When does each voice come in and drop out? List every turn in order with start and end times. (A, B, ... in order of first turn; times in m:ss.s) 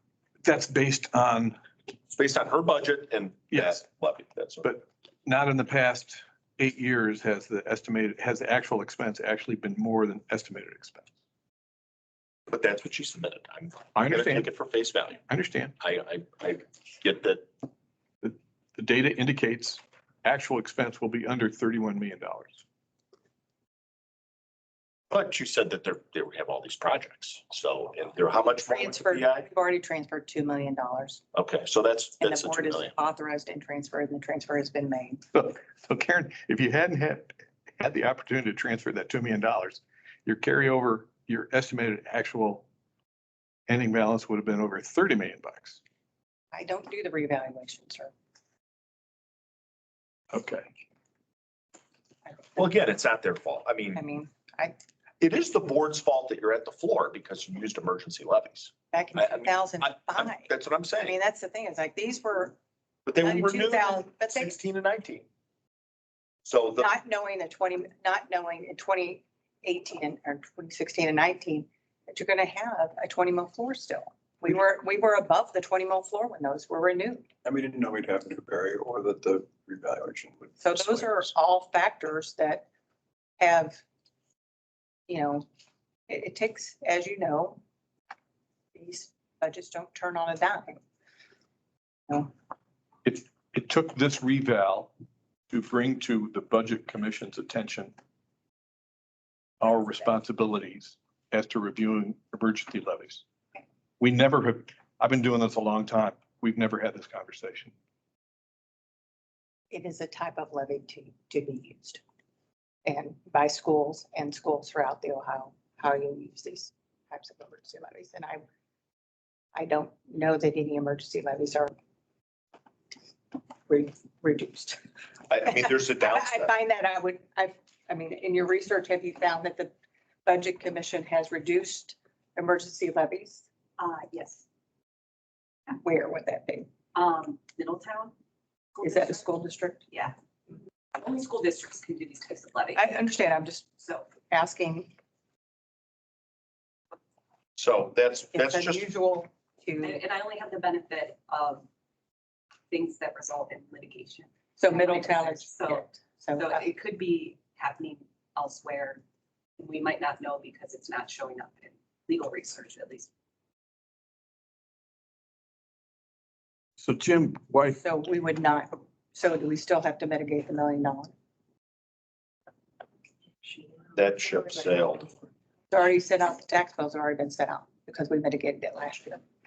0:00.4-0:01.6 A
0:02.1-0:04.7 B
0:03.5-0:03.8 A
0:04.6-0:11.1 A
0:12.5-0:15.2 B
0:13.9-0:14.5 A
0:15.3-0:15.7 A
0:15.8-0:17.5 B
0:18.2-0:22.6 A
0:25.1-0:29.5 B
0:28.3-0:31.2 C
0:31.3-0:32.9 B
0:32.2-0:35.2 C
0:35.3-0:42.6 A
0:43.7-0:45.8 A
0:46.5-0:48.1 C
0:50.3-0:50.7 A
0:52.4-0:52.6 C
0:52.6-0:54.0 B
0:53.9-0:54.7 C
0:55.2-1:01.2 B
0:58.9-1:02.6 C
1:03.0-1:05.2 B
1:03.2-1:04.5 C
1:06.4-1:06.9 B
1:06.8-1:17.3 C
1:17.4-1:21.2 D
1:20.6-1:22.6 C
1:23.4-1:23.8 C
1:25.1-1:25.4 C
1:26.1-1:27.6 C
1:28.7-1:30.8 C
1:33.0-1:34.9 A
1:35.5-1:38.0 A
1:39.6-1:43.2 A
1:44.0-1:47.7 A
1:49.7-1:52.0 C
1:52.8-1:58.4 C
1:59.5-2:01.7 C
2:03.7-2:04.8 C
2:05.3-2:06.5 B
2:05.5-2:09.7 C
2:10.2-2:13.4 C
2:13.8-2:14.4 E
2:15.8-2:16.7 C
2:16.9-2:18.1 E
2:18.7-2:19.2 E
2:18.8-2:19.8 C
2:20.9-2:23.1 E
2:22.8-2:23.7 C
2:23.8-2:24.1 E
2:24.3-2:24.9 C
2:27.6-2:28.9 B
2:28.3-2:30.0 C
2:29.8-2:31.6 E
2:32.7-2:39.0 E
2:34.6-2:36.7 C
2:39.6-2:43.1 E
2:46.8-2:47.8 A
2:47.8-2:51.1 C
2:53.9-2:55.1 B
2:55.7-2:59.2 C